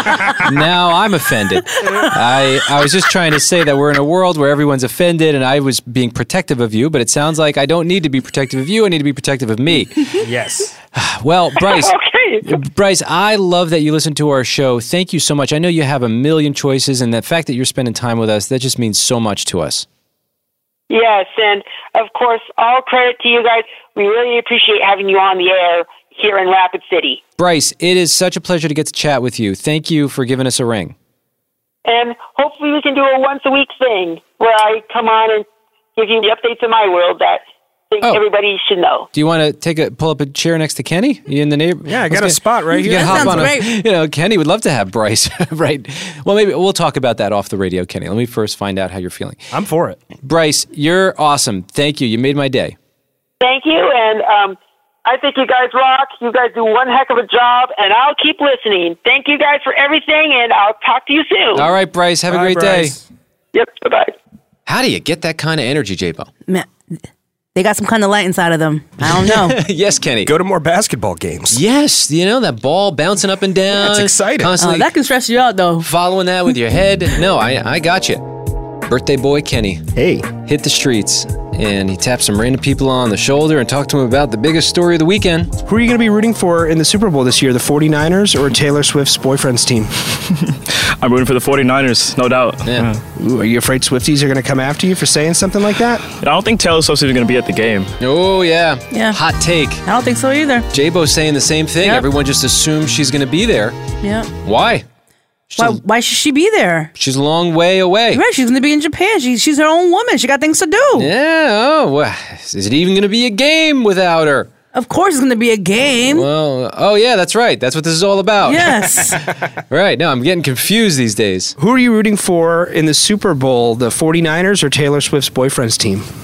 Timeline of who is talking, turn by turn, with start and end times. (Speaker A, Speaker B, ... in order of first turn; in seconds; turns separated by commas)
Speaker A: 0.3-10.2, Speaker B: 10.2-10.7, Speaker A: 10.9-19.9, Speaker C: 11.6-12.5, Speaker C: 20.9-27.2, Speaker A: 27.4-30.9, Speaker C: 31.9-39.1, Speaker A: 39.1-49.5, Speaker B: 41.8-43.5, Speaker D: 42.7-43.7, Speaker B: 49.5-50.0, Speaker A: 50.2-52.8, Speaker C: 53.4-61.7, Speaker A: 61.5-62.9, Speaker B: 62.3-63.0, Speaker C: 63.5-64.1, Speaker A: 64.7-66.3, Speaker D: 67.5-69.6, Speaker A: 69.0-70.3, Speaker B: 70.2-71.6, Speaker A: 71.5-74.9, Speaker B: 73.7-74.5, Speaker D: 74.6-75.9, Speaker A: 75.8-78.2, Speaker A: 78.8-79.8, Speaker B: 79.9-80.3, Speaker A: 80.4-85.5, Speaker B: 85.6-90.1, Speaker E: 91.0-93.0, Speaker A: 92.6-92.9, Speaker B: 93.2-96.0, Speaker E: 96.2-97.9, Speaker A: 98.0-99.8, Speaker D: 98.9-99.2, Speaker D: 99.8-100.7, Speaker A: 100.7-103.8, Speaker D: 104.0-104.3, Speaker A: 104.4-104.8, Speaker A: 105.5-105.8, Speaker D: 105.6-106.9, Speaker A: 107.0-108.2, Speaker D: 108.1-111.1, Speaker A: 111.0-114.5, Speaker D: 114.7-116.3, Speaker A: 116.1-119.0, Speaker D: 118.4-119.2, Speaker A: 119.7-121.5, Speaker B: 121.6-126.1